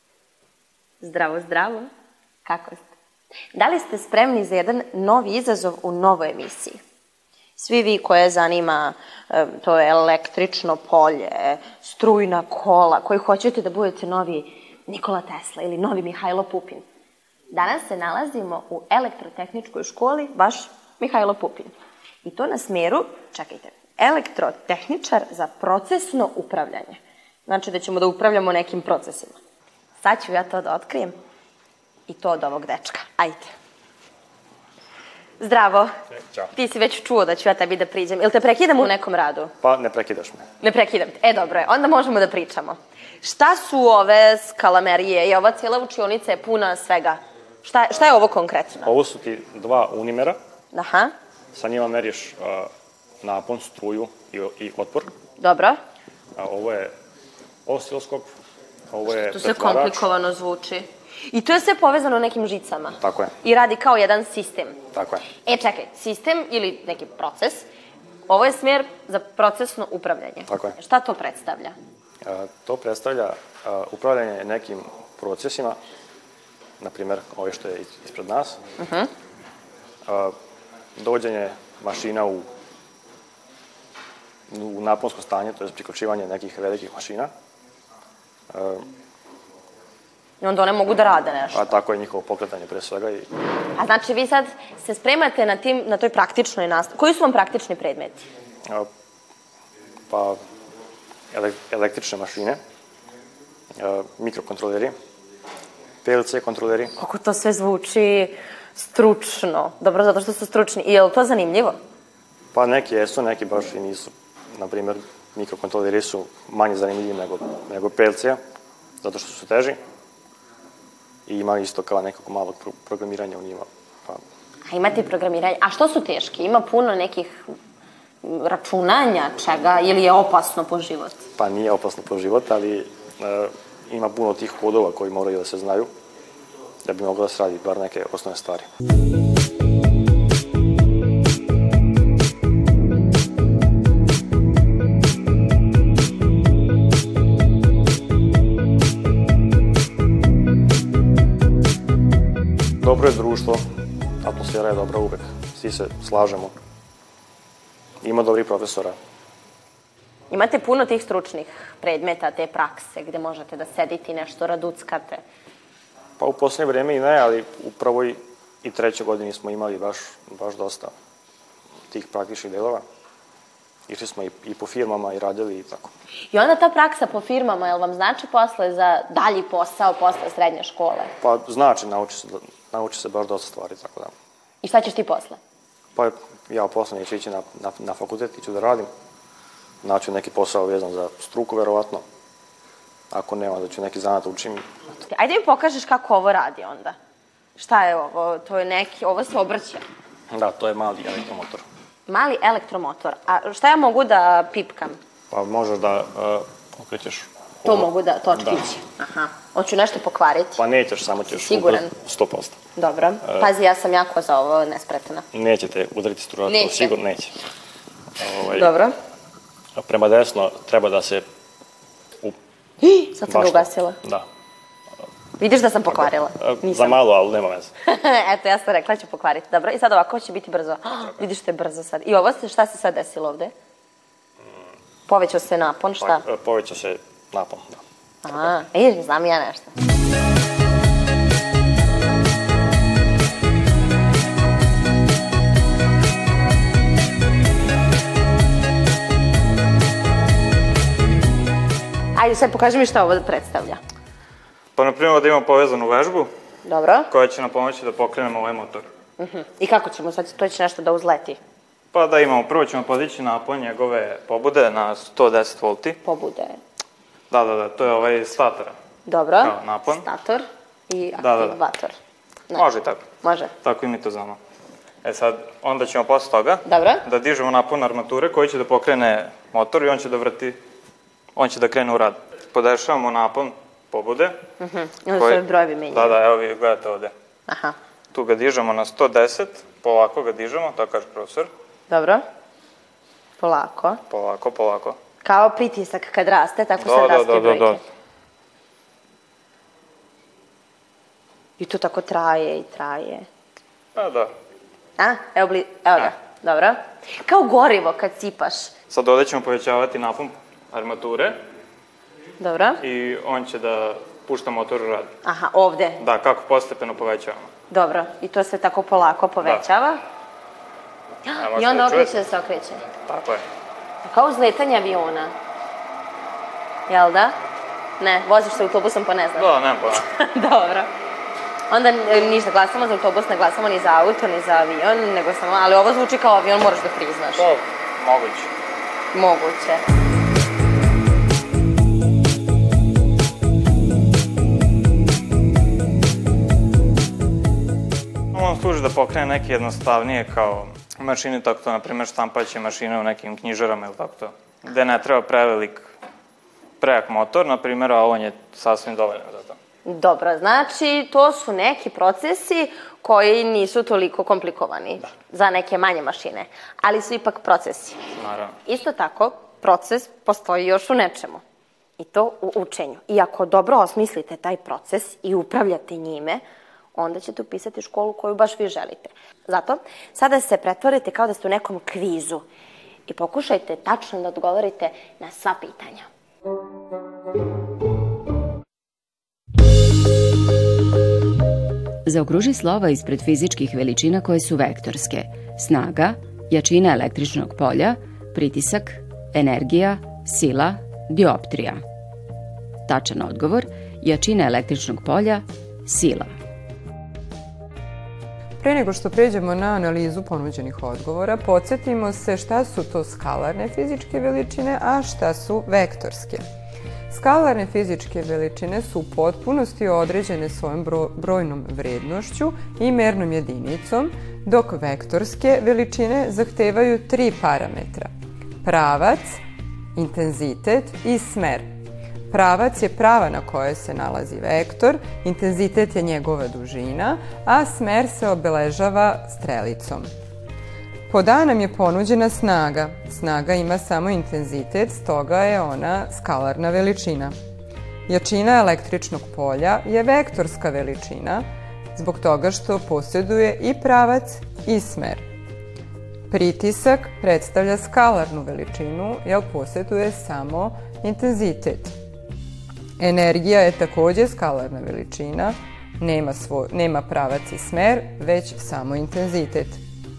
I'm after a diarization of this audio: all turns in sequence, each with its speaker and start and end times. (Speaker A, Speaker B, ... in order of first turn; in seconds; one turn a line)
Speaker A: 1.0-1.9
Speaker A: 2.5-2.8
Speaker A: 3.5-6.8
Speaker A: 7.6-16.8
Speaker A: 17.5-21.7
Speaker A: 22.2-29.4
Speaker A: 30.0-31.1
Speaker A: 32.1-33.5
Speaker A: 35.4-35.9
Speaker A: 36.5-39.5
Speaker B: 39.6-40.5
Speaker A: 40.6-48.9
Speaker B: 48.9-50.4
Speaker A: 50.7-51.1
Speaker B: 51.5-52.7
Speaker B: 53.2-55.1
Speaker A: 55.4-55.8
Speaker B: 56.4-56.9
Speaker B: 57.7-58.4
Speaker B: 58.9-60.0
Speaker A: 59.1-64.8
Speaker B: 63.0-63.4
Speaker B: 64.9-65.3
Speaker A: 65.4-67.7
Speaker A: 68.3-71.7
Speaker B: 70.5-70.8
Speaker B: 72.2-75.8
Speaker B: 76.8-78.6
Speaker A: 78.8-79.1
Speaker B: 80.1-80.3
Speaker B: 81.0-82.5
Speaker B: 84.5-87.3
Speaker B: 88.5-88.8
Speaker A: 90.4-91.8
Speaker B: 91.5-93.3
Speaker A: 93.8-98.3
Speaker B: 100.1-100.4
Speaker B: 101.3-102.6
Speaker B: 103.8-104.9
Speaker B: 106.0-106.9
Speaker A: 107.0-111.8
Speaker B: 112.5-118.4
Speaker B: 119.0-119.8
Speaker B: 121.3-124.2
Speaker A: 124.7-127.4
Speaker A: 128.2-131.3
Speaker B: 131.4-135.9
Speaker B: 136.9-138.7
Speaker B: 152.8-153.6
Speaker B: 154.2-156.5
Speaker B: 158.0-159.0
Speaker A: 160.3-165.2
Speaker B: 166.2-170.9
Speaker B: 171.9-172.8
Speaker B: 173.9-175.9
Speaker A: 176.3-181.1
Speaker B: 181.2-184.1
Speaker A: 184.6-185.4
Speaker B: 186.0-188.9
Speaker B: 189.8-192.1
Speaker B: 193.1-194.7
Speaker A: 195.0-197.0
Speaker A: 197.6-199.8
Speaker B: 200.3-201.6
Speaker A: 202.1-205.0
Speaker B: 205.3-208.7
Speaker A: 207.7-210.6
Speaker B: 210.6-212.6
Speaker A: 211.3-211.9
Speaker A: 212.8-215.2
Speaker B: 213.2-213.5
Speaker B: 215.3-217.3
Speaker A: 216.5-216.9
Speaker B: 218.2-218.7
Speaker A: 218.5-218.9
Speaker B: 219.8-221.2
Speaker A: 222.8-224.0
Speaker B: 223.3-224.3
Speaker A: 225.4-227.0
Speaker B: 225.8-227.7
Speaker A: 227.9-233.5
Speaker A: 235.1-236.2
Speaker B: 236.0-237.8
Speaker A: 238.2-239.7
Speaker A: 252.2-253.8
Speaker C: 254.8-256.3
Speaker A: 256.6-257.1
Speaker C: 257.1-258.9
Speaker A: 259.2-261.4
Speaker C: 261.9-266.0
Speaker A: 266.0-266.6
Speaker C: 267.3-268.8
Speaker A: 269.1-271.9
Speaker C: 269.4-270.0
Speaker C: 271.2-271.6
Speaker C: 272.5-273.0
Speaker A: 273.2-273.5
Speaker C: 273.6-274.4
Speaker C: 275.0-280.6
Speaker A: 276.6-277.0
Speaker C: 281.4-284.4
Speaker A: 284.6-286.2
Speaker C: 285.1-287.1
Speaker A: 287.5-287.8
Speaker C: 288.1-291.5
Speaker A: 291.9-292.2
Speaker A: 293.4-294.0
Speaker C: 294.1-295.0
Speaker A: 295.2-297.8
Speaker C: 296.8-297.8
Speaker A: 301.6-303.2
Speaker C: 303.9-304.3
Speaker A: 305.0-308.7
Speaker C: 308.9-311.4
Speaker A: 312.4-312.8
Speaker C: 312.8-315.1
Speaker A: 315.2-316.0
Speaker C: 316.0-317.5
Speaker A: 317.7-320.0
Speaker A: 321.2-322.8
Speaker C: 321.4-322.2
Speaker C: 323.0-323.4
Speaker A: 324.0-325.3
Speaker A: 326.9-327.4
Speaker A: 328.0-330.9
Speaker C: 329.4-330.0
Speaker A: 331.7-337.5
Speaker C: 337.4-338.5
Speaker A: 339.1-339.8
Speaker C: 348.3-355.9
Speaker C: 356.8-359.6
Speaker A: 359.8-368.0
Speaker C: 368.2-368.5
Speaker A: 368.6-371.4
Speaker A: 372.0-376.4
Speaker A: 376.9-382.4
Speaker A: 383.1-386.1
Speaker D: 392.1-401.8
Speaker D: 402.9-406.3
Speaker E: 408.6-416.4
Speaker E: 417.1-428.1
Speaker E: 428.6-429.4
Speaker E: 429.9-431.7
Speaker E: 432.3-440.1
Speaker E: 441.1-447.4
Speaker E: 448.1-455.2
Speaker E: 456.3-462.0
Speaker E: 463.0-469.8